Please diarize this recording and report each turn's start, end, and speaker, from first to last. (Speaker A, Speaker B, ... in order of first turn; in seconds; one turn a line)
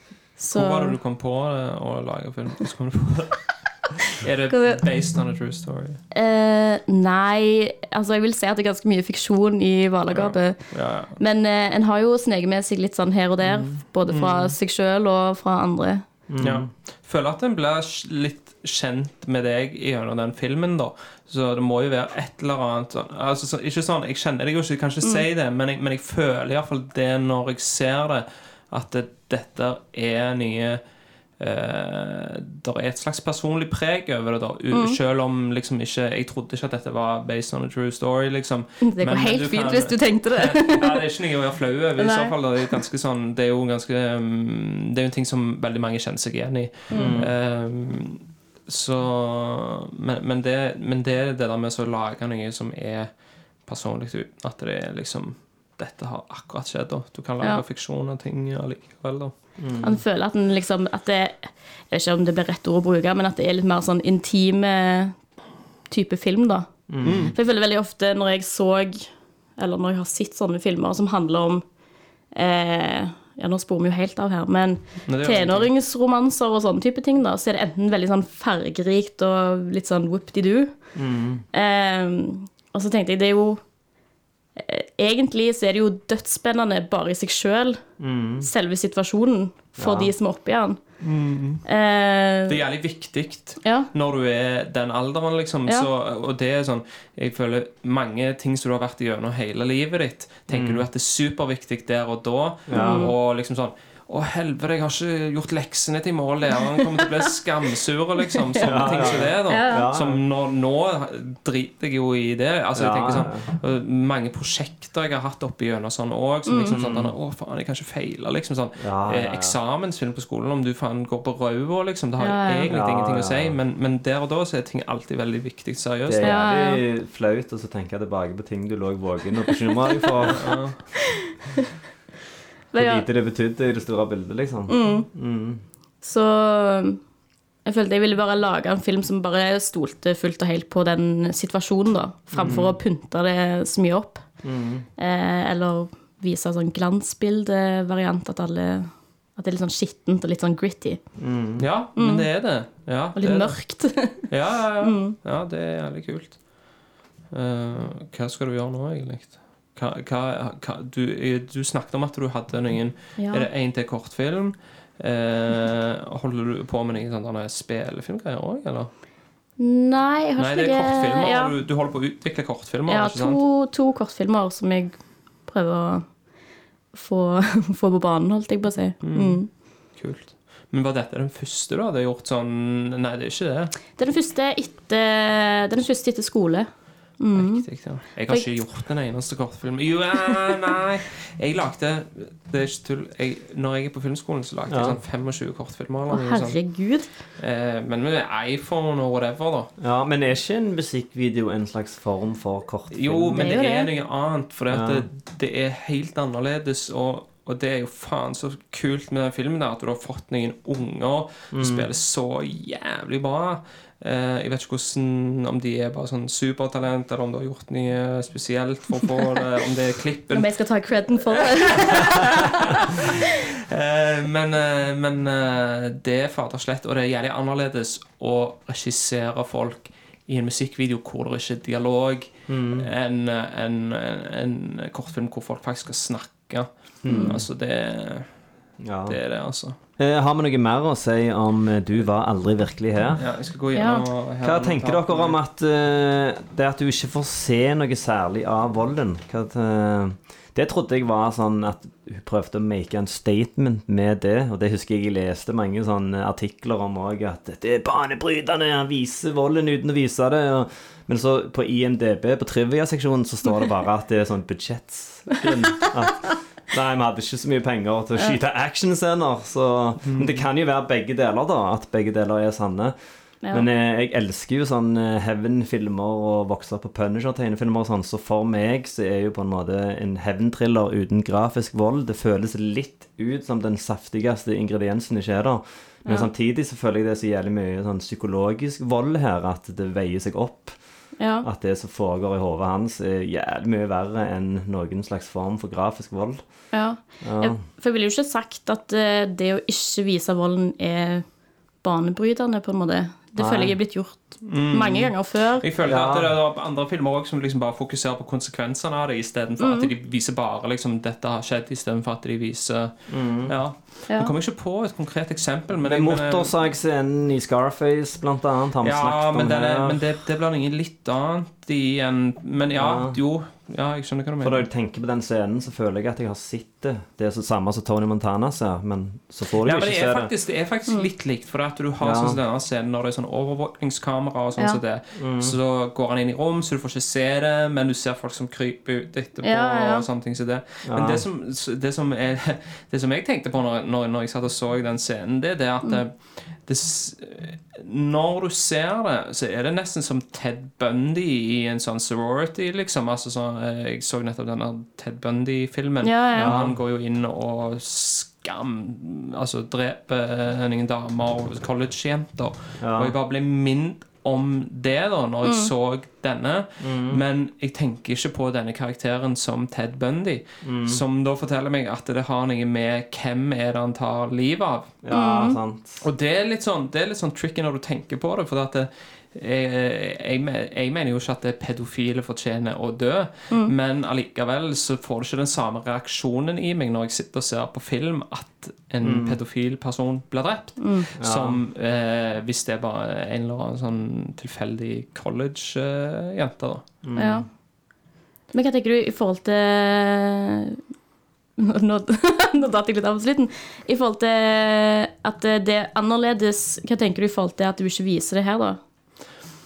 Speaker A: 0.4-1.0
Speaker B: 0.5-6.0
Speaker A: 4.5-4.8
Speaker A: 6.1-16.1
Speaker B: 10.1-11.2
Speaker B: 13.4-14.6
Speaker C: 16.3-16.7
Speaker B: 16.4-30.8
Speaker B: 31.4-59.3
Speaker A: 34.7-35.0
Speaker A: 38.8-41.0
Speaker A: 42.0-42.8
Speaker A: 46.9-47.2
Speaker C: 47.0-47.3
Speaker C: 59.6-60.0
Speaker A: 59.8-65.2
Speaker A: 65.9-71.6
Speaker C: 66.9-67.3
Speaker B: 67.0-67.4
Speaker A: 72.3-80.9
Speaker B: 75.1-75.7
Speaker C: 81.0-81.4
Speaker A: 81.5-83.6
Speaker A: 84.6-87.8
Speaker C: 88.0-88.5
Speaker A: 88.4-90.8
Speaker C: 89.8-90.1
Speaker B: 91.0-91.6
Speaker A: 91.7-92.6
Speaker B: 92.5-126.5
Speaker A: 93.6-93.9
Speaker C: 100.5-100.9
Speaker C: 102.7-103.1
Speaker A: 102.7-103.1
Speaker A: 108.3-109.9
Speaker C: 108.6-110.2
Speaker C: 112.8-113.4
Speaker A: 116.5-116.8
Speaker C: 116.7-117.1
Speaker C: 118.8-119.6
Speaker A: 122.2-122.8
Speaker C: 122.7-123.6
Speaker C: 126.1-130.6
Speaker A: 126.2-126.8
Speaker A: 130.1-130.3
Speaker B: 130.3-130.8
Speaker A: 132.7-133.1
Speaker C: 132.8-135.6
Speaker A: 134.7-135.1
Speaker A: 136.0-137.0
Speaker A: 137.7-144.3
Speaker C: 142.3-142.8
Speaker B: 142.4-142.7
Speaker C: 144.4-144.9
Speaker A: 145.0-151.0
Speaker C: 151.2-151.7
Speaker B: 151.6-168.9
Speaker A: 152.0-152.5
Speaker A: 153.2-154.3
Speaker A: 154.8-155.2
Speaker A: 163.2-163.5
Speaker A: 169.6-171.5
Speaker B: 170.4-173.4
Speaker A: 172.9-176.1
Speaker A: 176.9-179.5
Speaker B: 179.0-183.8
Speaker A: 184.0-187.7
Speaker B: 187.3-199.7
Speaker C: 194.7-195.0
Speaker A: 196.1-197.1
Speaker C: 199.8-203.6
Speaker B: 202.9-220.5
Speaker A: 203.4-203.9
Speaker C: 204.7-205.1
Speaker C: 211.5-211.9
Speaker A: 220.3-222.5
Speaker B: 221.4-238.4
Speaker C: 232.5-232.9
Speaker C: 237.0-237.4
Speaker A: 237.1-237.4
Speaker C: 238.8-239.2
Speaker B: 239.1-239.8
Speaker C: 240.0-243.2
Speaker B: 243.2-245.4
Speaker A: 243.7-244.1
Speaker C: 244.4-273.0
Speaker B: 270.0-270.4
Speaker C: 273.5-290.8
Speaker A: 291.2-291.5
Speaker C: 291.4-296.6
Speaker A: 296.7-301.2
Speaker C: 297.2-297.6
Speaker A: 301.8-305.7
Speaker C: 303.4-303.8
Speaker B: 304.5-316.5
Speaker C: 305.9-306.3
Speaker A: 309.6-309.9
Speaker C: 313.1-313.6
Speaker C: 315.8-320.0
Speaker B: 318.8-324.7
Speaker C: 322.8-323.2
Speaker C: 324.4-330.3
Speaker B: 329.6-374.9
Speaker C: 332.0-332.4
Speaker C: 335.2-335.6
Speaker A: 339.4-340.1
Speaker C: 340.9-341.2
Speaker A: 356.0-356.5
Speaker C: 356.4-356.8
Speaker C: 362.8-363.1
Speaker A: 365.4-365.7
Speaker C: 366.8-367.2
Speaker C: 370.6-371.0
Speaker C: 375.0-376.0
Speaker A: 375.1-375.6
Speaker B: 376.0-396.9
Speaker C: 389.0-389.4
Speaker A: 390.8-391.1
Speaker C: 391.2-391.6
Speaker C: 397.0-397.5
Speaker A: 397.2-397.5
Speaker A: 398.5-400.8
Speaker A: 401.6-408.8